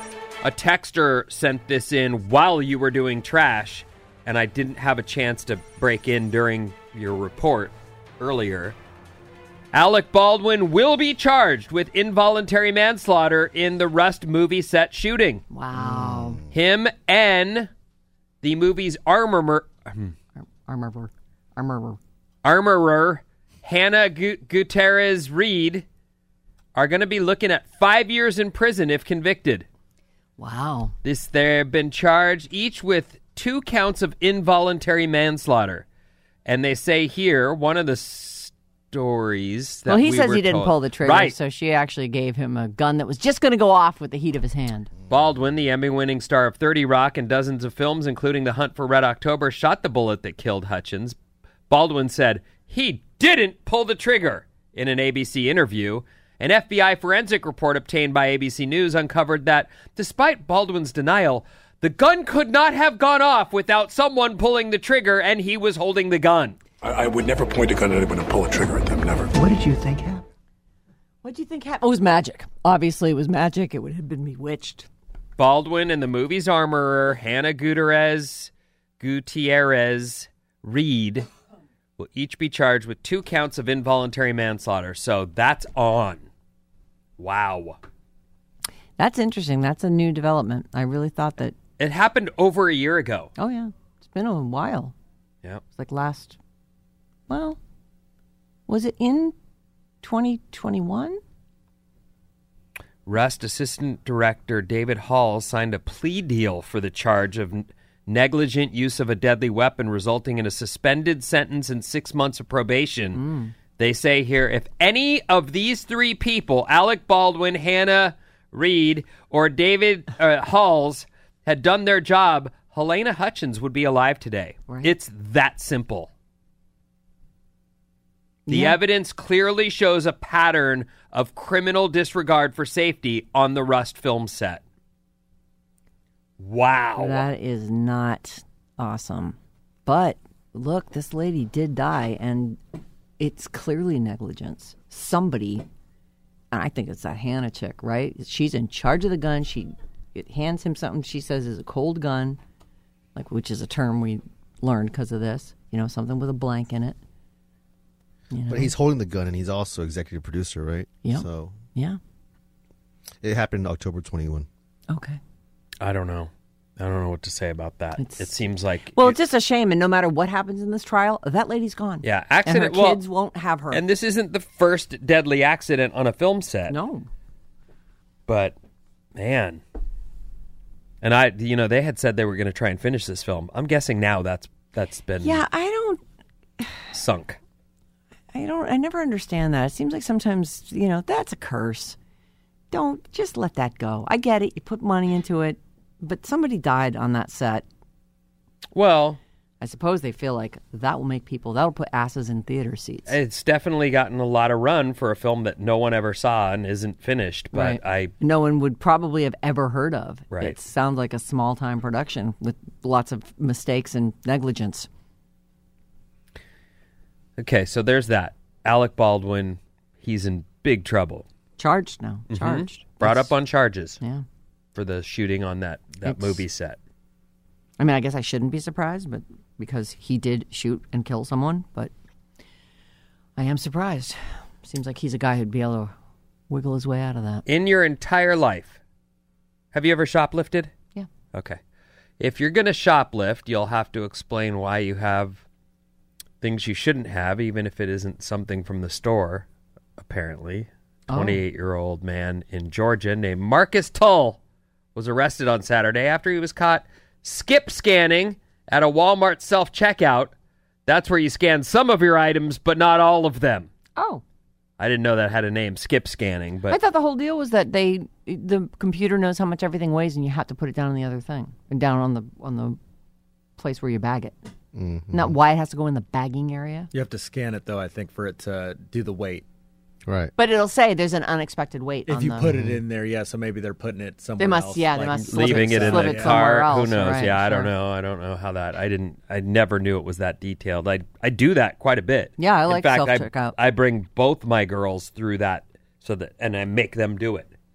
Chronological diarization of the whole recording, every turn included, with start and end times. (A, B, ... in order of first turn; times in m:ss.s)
0:00.4-0:08.8 A
0:09.7-0:15.4 A
0:15.5-0:16.4 B
0:15.7-0:16.4 C
0:16.5-0:17.7 A
0:18.4-0:20.1 A
0:20.4-0:22.0 B
0:22.4-0:25.8 A
0:26.7-0:29.6 A
0:30.4-0:30.9 B
0:31.0-0:35.8 A
0:36.4-0:41.3 A
0:39.9-0:44.9 B
0:45.1-0:51.2 A
0:51.7-1:06.6 A
1:06.8-1:09.9 D
1:11.2-1:14.9 B
1:15.4-1:21.3 A
1:22.0-1:26.2 A
1:27.2-1:27.8 A
1:29.0-1:31.6 B
1:31.8-1:33.3 A
1:33.4-1:34.9 B
1:35.7-1:36.4 B
1:37.3-1:37.6 B
1:38.7-1:39.3 B
1:40.0-1:41.2 B
1:43.0-1:53.2 A
1:53.1-1:53.5 B
1:53.8-2:06.1 A
2:08.5-2:08.8 B
2:08.5-2:14.6 A
2:16.4-2:17.2 A
2:17.0-2:22.6 B
2:23.2-2:25.6 B
2:26.5-2:32.4 B
2:33.1-2:37.0 B
2:38.3-2:38.7 B
2:38.5-2:41.6 C
2:41.0-2:42.0 B
2:43.2-2:44.5 C
2:44.9-2:45.2 B
2:45.8-2:49.2 A
2:48.0-2:48.2 B
2:48.9-2:53.8 B
2:52.0-2:53.0 A
2:53.7-2:56.8 A
2:56.7-2:57.1 B
2:58.3-2:58.5 A
2:59.1-2:59.6 A
3:01.0-3:05.4 A
3:05.2-3:06.0 B
3:06.9-3:07.4 A
3:08.3-3:12.0 B
3:12.7-3:17.6 B
3:18.7-3:19.2 A
3:19.6-3:23.2 B
3:23.1-3:28.1 A
3:27.5-3:34.9 B
3:30.3-3:30.6 A
3:37.4-3:41.2 A
3:41.6-3:43.3 B
3:42.3-3:44.0 A
3:44.0-3:44.2 B
3:44.7-3:46.8 A
3:46.0-3:46.4 B
3:47.8-3:51.9 B
3:53.4-3:55.9 B
3:56.5-3:57.4 B
3:57.5-3:58.8 A
3:59.7-4:00.7 A
4:01.3-4:01.6 A
4:02.2-4:05.4 A
4:06.4-4:09.4 A
4:10.0-4:14.4 A
4:11.1-4:11.4 B
4:14.9-4:20.3 A
4:20.8-4:23.7 A
4:24.0-4:24.2 B
4:24.8-4:26.8 A
4:26.7-4:32.8 B
4:33.6-4:34.4 B
4:34.7-4:35.3 C
4:35.1-4:36.9 B
4:36.9-4:39.4 E
4:40.1-4:40.3 C
4:40.4-4:42.5 B
4:42.1-4:46.4 E
4:42.4-4:42.8 C
4:44.4-4:47.7 B
4:45.3-4:57.5 A
4:52.4-4:53.5 B